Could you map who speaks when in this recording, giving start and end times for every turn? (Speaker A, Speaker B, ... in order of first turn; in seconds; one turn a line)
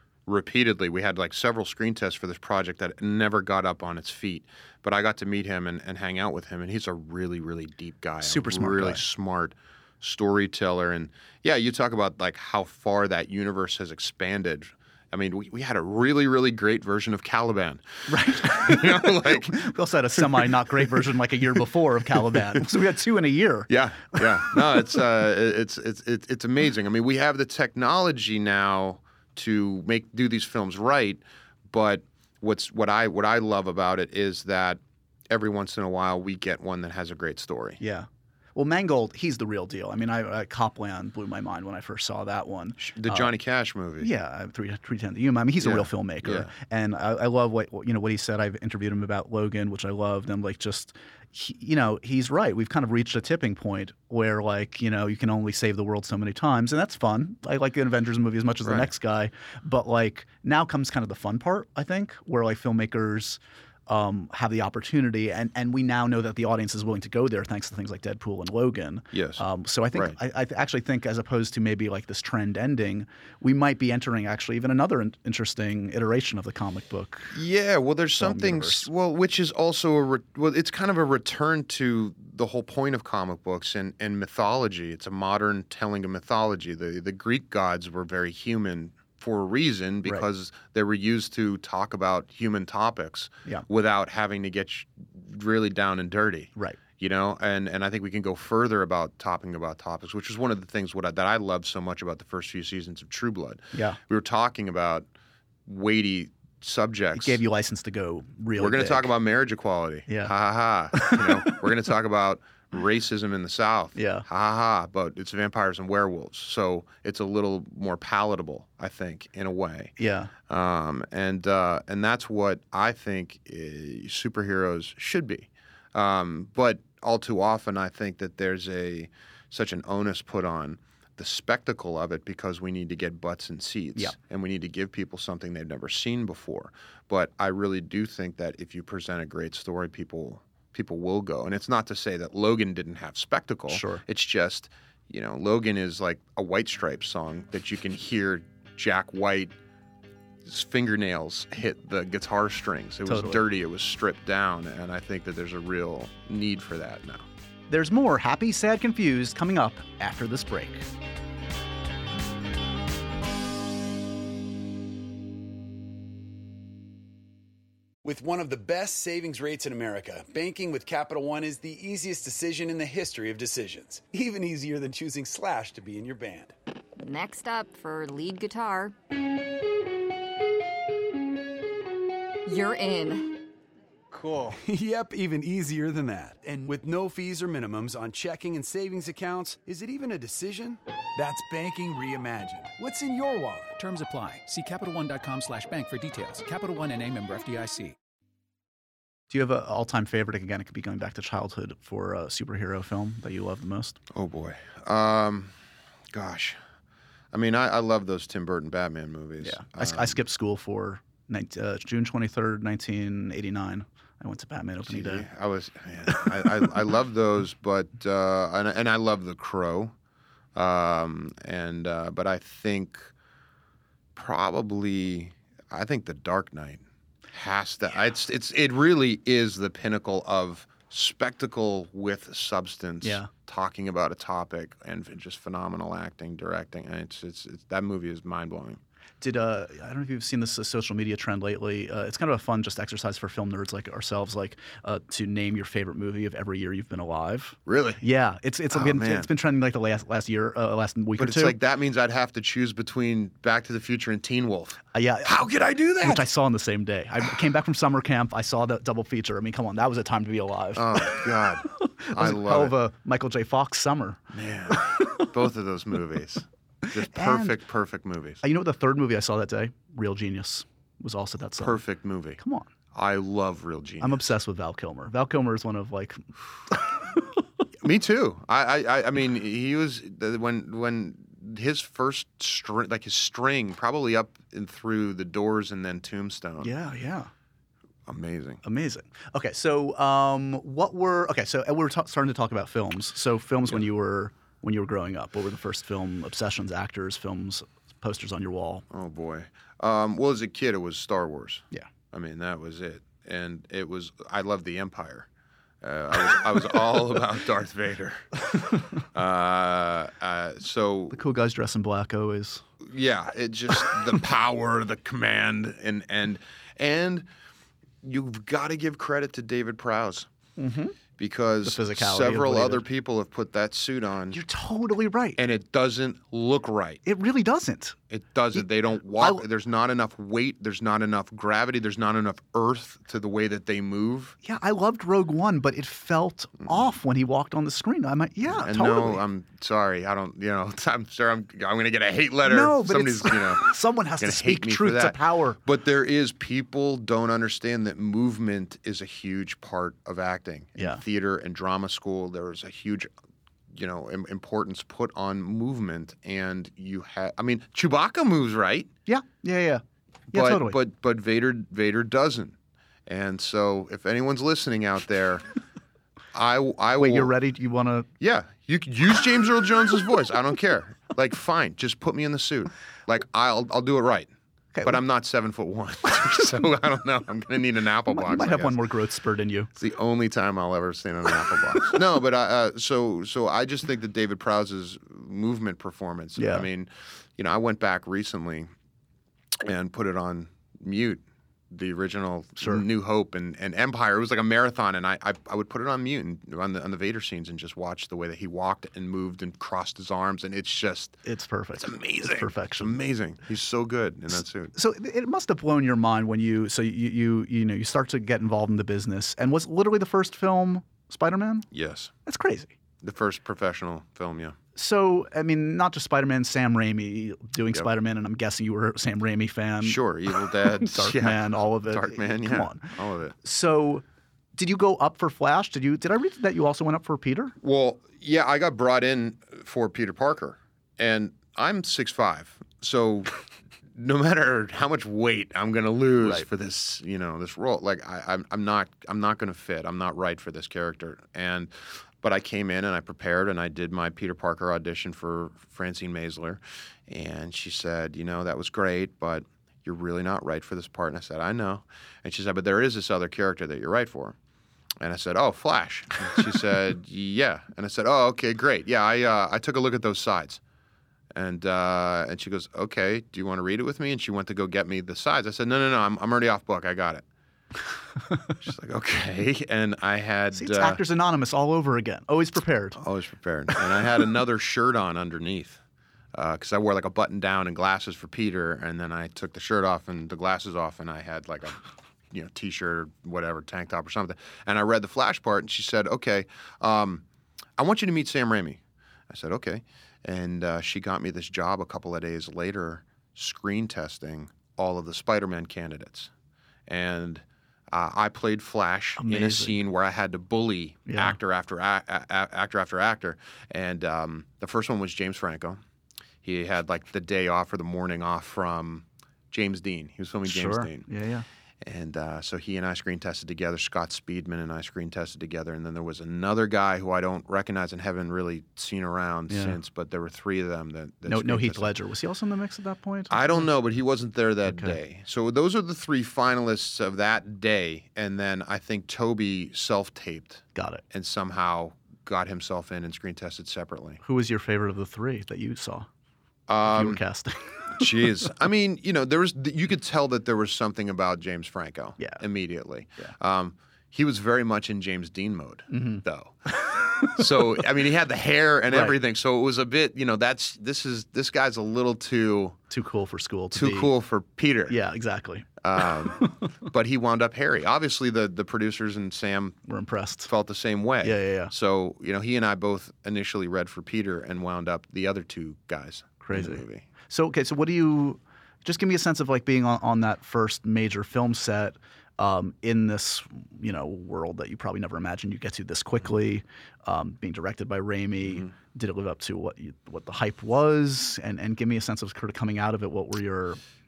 Speaker A: 0.3-19.6
Speaker B: 8.2-9.0
Speaker B: 18.1-24.2
Speaker A: 20.2-20.5
Speaker A: 22.1-22.4
Speaker A: 23.7-37.8
Speaker B: 37.8-43.3
Speaker A: 42.8-44.1
Speaker B: 44.0-77.4
Speaker A: 45.6-46.5
Speaker A: 58.6-58.9
Speaker A: 69.1-70.2
Speaker A: 77.3-105.1
Speaker B: 78.2-78.9
Speaker B: 103.7-104.0
Speaker A: 105.7-107.4
Speaker B: 107.2-109.1
Speaker A: 108.6-119.9
Speaker B: 110.1-110.3
Speaker B: 110.9-111.7
Speaker B: 114.0-114.3
Speaker B: 120.0-120.3
Speaker A: 120.5-149.5
Speaker B: 143.7-144.0
Speaker A: 150.5-157.2
Speaker B: 153.1-153.4
Speaker B: 157.7-160.9
Speaker C: 168.0-176.5
Speaker D: 177.0-178.9
Speaker D: 182.4-183.5
Speaker C: 184.1-193.8
Speaker E: 193.8-197.9
Speaker B: 199.3-204.0
Speaker A: 204.1-205.5
Speaker A: 206.1-206.6
Speaker A: 207.3-210.2
Speaker B: 209.4-215.3
Speaker A: 214.8-219.9
Speaker B: 216.1-216.7
Speaker A: 220.6-223.1
Speaker A: 224.2-238.8
Speaker B: 233.0-233.3
Speaker B: 239.2-251.6
Speaker A: 247.7-248.0
Speaker A: 248.7-249.3
Speaker A: 251.2-256.3
Speaker B: 254.9-255.4
Speaker B: 256.0-265.1
Speaker A: 260.8-262.8
Speaker A: 264.3-268.4
Speaker B: 267.1-267.6
Speaker B: 268.4-271.8
Speaker A: 271.6-272.4
Speaker B: 272.4-272.7
Speaker A: 272.9-274.2
Speaker B: 274.0-277.2
Speaker A: 277.8-286.8
Speaker B: 286.6-287.3
Speaker A: 288.1-288.6
Speaker B: 288.6-298.9
Speaker A: 298.9-305.3
Speaker A: 305.8-311.2
Speaker B: 311.1-312.6
Speaker A: 312.9-317.3
Speaker A: 318.0-320.3
Speaker B: 320.6-321.0
Speaker A: 321.2-324.4
Speaker B: 321.6-322.8
Speaker B: 324.3-325.4
Speaker A: 325.4-327.0
Speaker B: 327.1-328.0
Speaker A: 328.1-334.4
Speaker B: 328.6-329.4
Speaker B: 334.4-339.2
Speaker A: 338.5-353.1
Speaker B: 342.4-345.6
Speaker B: 350.8-351.0
Speaker A: 353.7-358.9
Speaker B: 359.1-360.8
Speaker A: 360.3-362.6
Speaker A: 363.1-365.4
Speaker A: 366.3-367.3
Speaker B: 367.0-368.1
Speaker A: 368.2-374.3
Speaker B: 374.8-375.0
Speaker A: 374.8-378.8
Speaker B: 378.1-379.7
Speaker A: 379.8-388.7
Speaker B: 386.4-386.7
Speaker A: 389.6-401.2
Speaker B: 392.6-392.9
Speaker B: 401.3-403.0
Speaker A: 401.8-404.7
Speaker B: 404.7-411.7
Speaker A: 411.7-412.1
Speaker B: 412.3-412.7
Speaker A: 413.0-414.6
Speaker B: 414.8-422.9
Speaker A: 419.8-423.4
Speaker B: 423.4-424.0
Speaker B: 424.6-427.5
Speaker A: 427.6-433.3
Speaker A: 433.9-454.4
Speaker B: 436.2-436.5
Speaker A: 455.0-460.6
Speaker A: 461.4-467.2
Speaker A: 468.6-471.0
Speaker B: 470.5-473.0
Speaker A: 473.0-475.8
Speaker A: 476.3-487.2
Speaker A: 487.8-496.3
Speaker A: 496.9-505.8
Speaker B: 499.2-499.8
Speaker B: 501.1-501.4
Speaker A: 506.4-511.1
Speaker B: 510.4-511.5
Speaker A: 511.8-521.9
Speaker B: 519.5-519.8
Speaker B: 521.3-523.7
Speaker A: 523.3-534.2
Speaker B: 524.7-525.0
Speaker B: 530.8-531.0
Speaker B: 534.2-536.1
Speaker A: 536.7-537.2
Speaker B: 536.9-538.5
Speaker A: 538.0-546.7
Speaker B: 545.9-546.2
Speaker A: 547.2-552.8
Speaker B: 548.9-549.2
Speaker B: 552.9-554.1
Speaker A: 553.7-555.0
Speaker B: 554.9-556.3
Speaker A: 555.8-559.8
Speaker B: 559.9-560.5
Speaker A: 560.5-567.1
Speaker B: 561.2-561.7
Speaker B: 566.4-583.8
Speaker A: 578.5-578.7